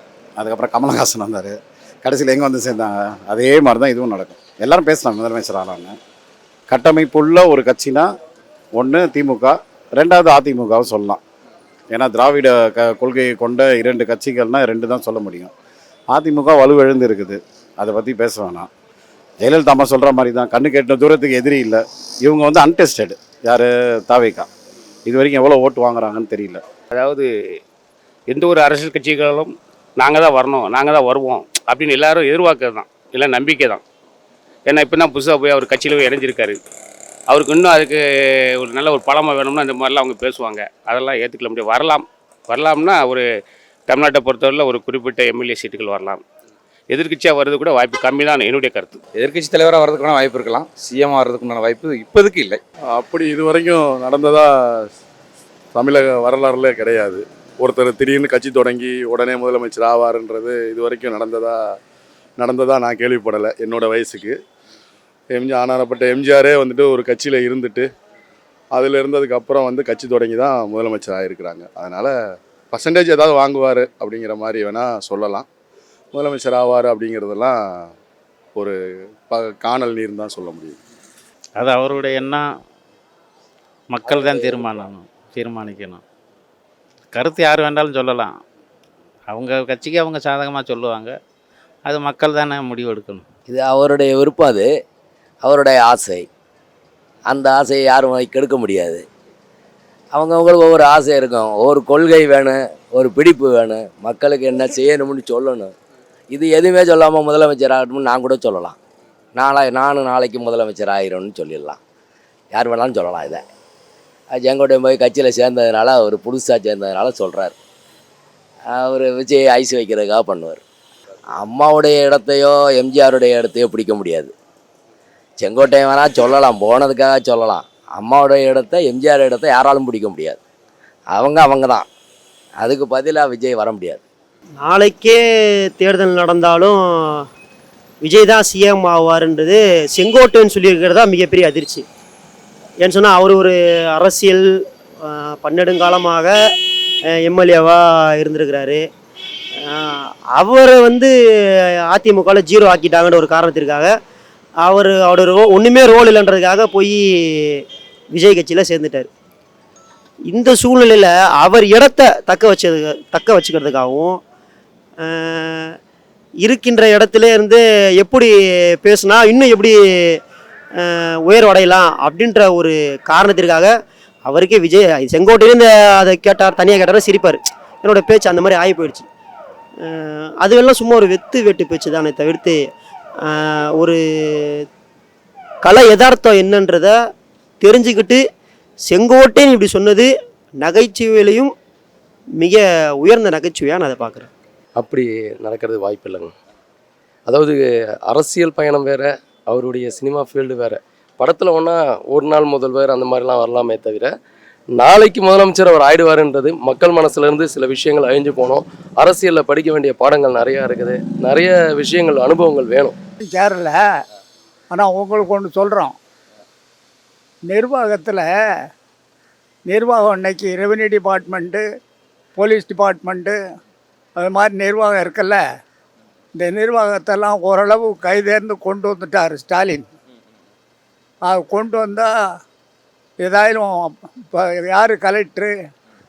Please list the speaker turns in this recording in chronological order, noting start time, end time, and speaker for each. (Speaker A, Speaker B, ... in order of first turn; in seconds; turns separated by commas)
Speaker A: 0.4-5.9, Speaker A: 6.7-8.1, Speaker A: 8.8-11.2, Speaker A: 11.9-15.5, Speaker A: 16.1-18.7, Speaker A: 19.4-24.5, Speaker A: 25.1-26.6, Speaker B: 26.9-27.2, Speaker B: 28.3-33.8, Speaker B: 34.7-36.6, Speaker B: 37.3-38.0, Speaker B: 38.5-43.2, Speaker B: 43.9-46.2, Speaker B: 46.9-49.0, Speaker C: 49.2-52.6, Speaker D: 52.9-54.9, Speaker D: 55.7-61.5, Speaker D: 62.4-64.3, Speaker D: 65.3-67.9, Speaker D: 68.7-72.1, Speaker D: 72.7-75.5, Speaker D: 76.1-77.9, Speaker D: 79.3-80.8, Speaker E: 81.6-82.4, Speaker E: 83.9-86.0, Speaker F: 84.2-84.5, Speaker E: 87.1-88.3, Speaker E: 89.3-91.1, Speaker E: 91.9-93.2, Speaker F: 93.5-94.7, Speaker F: 95.4-96.3, Speaker F: 97.3-99.0, Speaker F: 100.1-105.7, Speaker F: 106.3-108.7, Speaker F: 109.3-111.8, Speaker F: 112.5-113.4, Speaker F: 114.3-117.5, Speaker F: 118.7-120.6, Speaker F: 121.3-124.3, Speaker F: 125.4-130.4, Speaker F: 131.1-131.9, Speaker F: 132.6-134.0, Speaker G: 134.6-135.2, Speaker G: 135.8-137.2, Speaker G: 138.0-141.8, Speaker G: 142.8-144.4, Speaker G: 145.1-146.3, Speaker G: 147.2-148.8, Speaker G: 149.6-151.1, Speaker G: 151.9-153.9, Speaker G: 154.6-157.0, Speaker G: 158.1-159.1, Speaker G: 160.3-164.2, Speaker G: 165.1-165.7, Speaker G: 166.4-168.3, Speaker G: 168.8-169.7, Speaker G: 170.8-173.7, Speaker G: 174.3-179.1, Speaker G: 179.8-182.6, Speaker G: 183.4-184.6, Speaker G: 185.6-186.9, Speaker G: 187.6-188.2, Speaker G: 188.9-190.1, Speaker G: 190.6-191.5, Speaker G: 192.4-194.3, Speaker H: 194.8-196.3, Speaker H: 197.3-204.1, Speaker H: 204.7-212.9, Speaker I: 213.2-213.8, Speaker I: 214.7-215.9, Speaker I: 217.5-218.3, Speaker I: 219.7-221.6, Speaker I: 222.3-223.4, Speaker I: 224.2-225.4, Speaker I: 226.4-229.8, Speaker I: 231.2-232.1, Speaker I: 233.2-235.5